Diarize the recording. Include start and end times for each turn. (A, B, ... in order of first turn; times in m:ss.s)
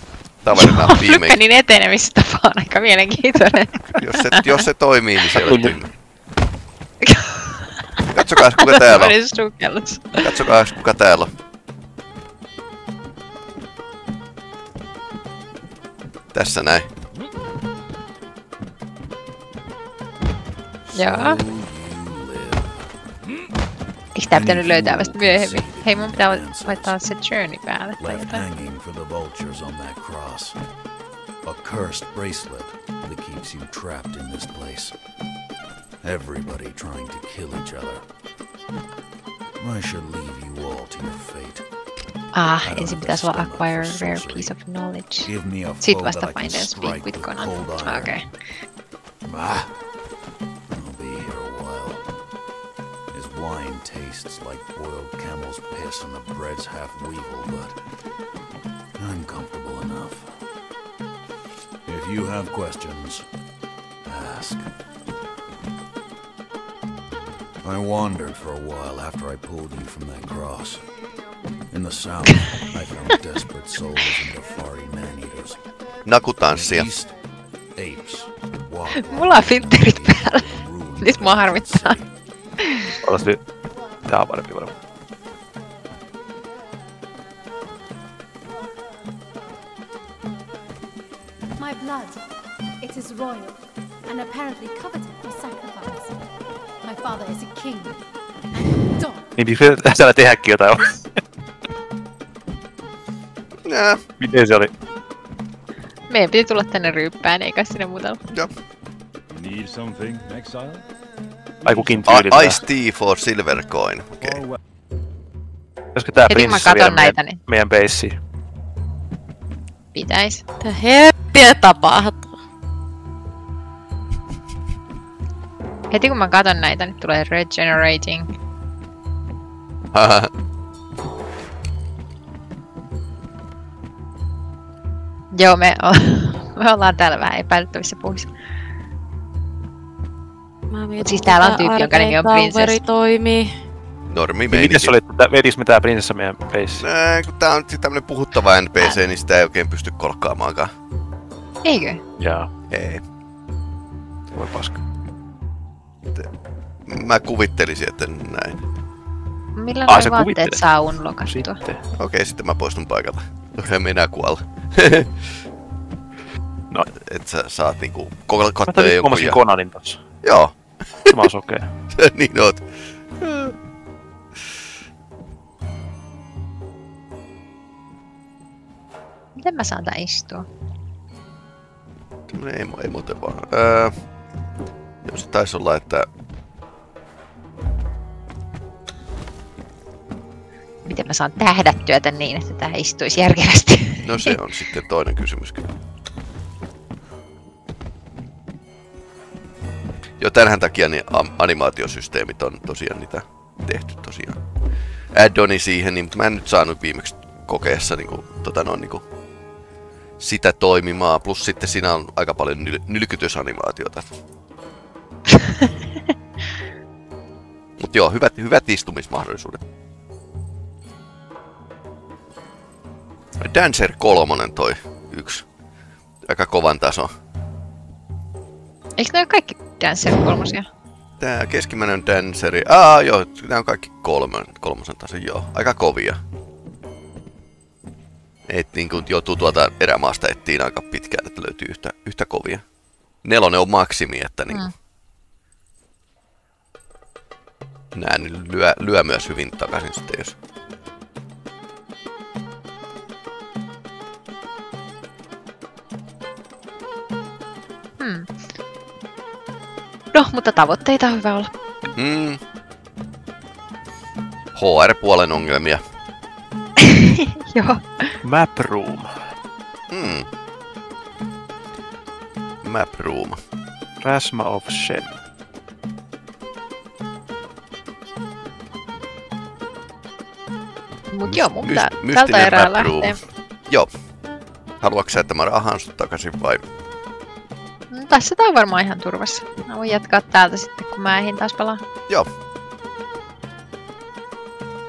0:00.4-0:01.4 A
0:00.5-0:04.6 B
0:03.9-0:05.9 A
0:05.4-0:05.8 C
0:07.0-0:10.4 B
0:08.1-0:09.2 A
0:10.2-0:11.3 A
0:16.3-0:16.9 A
0:20.9-0:22.9 D
0:20.9-0:21.4 B
0:24.1-0:28.4 B
0:24.3-0:27.0 D
0:28.0-0:30.6 D
0:31.4-0:34.9 D
0:36.0-0:38.0 D
0:39.6-0:41.6 D
0:42.3-0:45.3 B
0:42.6-0:44.6 D
0:45.2-0:48.2 D
0:45.8-0:48.3 B
0:49.2-0:49.7 D
0:50.7-0:52.0 D
0:53.1-0:57.8 D
0:59.0-1:00.3 D
1:01.8-1:03.2 D
1:04.0-1:04.7 D
1:07.6-1:10.8 D
1:11.7-1:15.6 D
1:16.0-1:16.9 A
1:16.5-1:17.1 D
1:17.8-1:22.1 D
1:19.0-1:20.5 B
1:21.0-1:22.0 B
1:22.6-1:22.9 B
1:23.0-1:23.4 C
1:24.0-1:24.7 C
1:31.6-1:32.3 E
1:32.8-1:36.3 E
1:36.8-1:38.0 E
1:38.5-1:39.3 E
1:39.4-1:41.1 C
1:43.6-1:44.0 A
1:44.2-1:44.7 C
1:46.1-1:48.2 B
1:49.3-1:50.8 F
1:51.6-1:52.1 F
1:51.6-1:52.6 C
1:52.0-1:54.4 A
1:54.2-1:54.6 F
1:55.9-1:58.1 C
1:56.3-1:57.4 B
1:59.9-2:00.4 B
2:00.6-2:02.3 G
2:05.9-2:08.3 B
2:09.9-2:10.3 A
2:15.3-2:18.3 B
2:20.7-2:23.5 G
2:21.0-2:22.8 B
2:24.1-2:25.0 A
2:24.5-2:26.8 C
2:26.8-2:30.7 A
2:31.6-2:32.0 B
2:32.2-2:32.5 C
2:32.7-2:33.0 A
2:34.3-2:34.8 C
2:36.8-2:38.6 A
2:39.6-2:41.6 B
2:39.9-2:41.8 C
2:42.0-2:45.4 A
2:46.9-2:49.4 A
2:48.7-2:50.0 C
2:50.2-2:51.2 A
2:51.1-2:51.7 C
2:51.9-2:52.7 A
2:53.2-2:53.6 A
2:59.4-3:00.4 B
3:02.3-3:03.9 A
3:05.0-3:06.1 A
3:10.8-3:14.4 B
3:14.0-3:15.7 A
3:20.2-3:24.4 A
3:25.1-3:29.0 A
3:30.2-3:34.1 A
3:35.3-3:35.7 B
3:37.8-3:39.6 A
3:43.4-3:45.4 A
3:46.2-3:47.1 A
3:49.0-3:50.6 B
3:51.2-3:56.2 A
3:58.5-4:02.6 A
4:03.2-4:04.7 A
4:07.9-4:10.3 A
4:18.0-4:18.3 B
4:20.1-4:21.5 B
4:22.0-4:22.4 A
4:24.5-4:25.8 A
4:26.8-4:28.2 B
4:28.2-4:29.1 C
4:29.9-4:30.3 A
4:32.6-4:33.4 A
4:34.0-4:35.1 C
4:41.1-4:43.2 B
4:41.2-4:43.9 A
4:44.8-4:46.6 A
4:47.9-4:51.8 B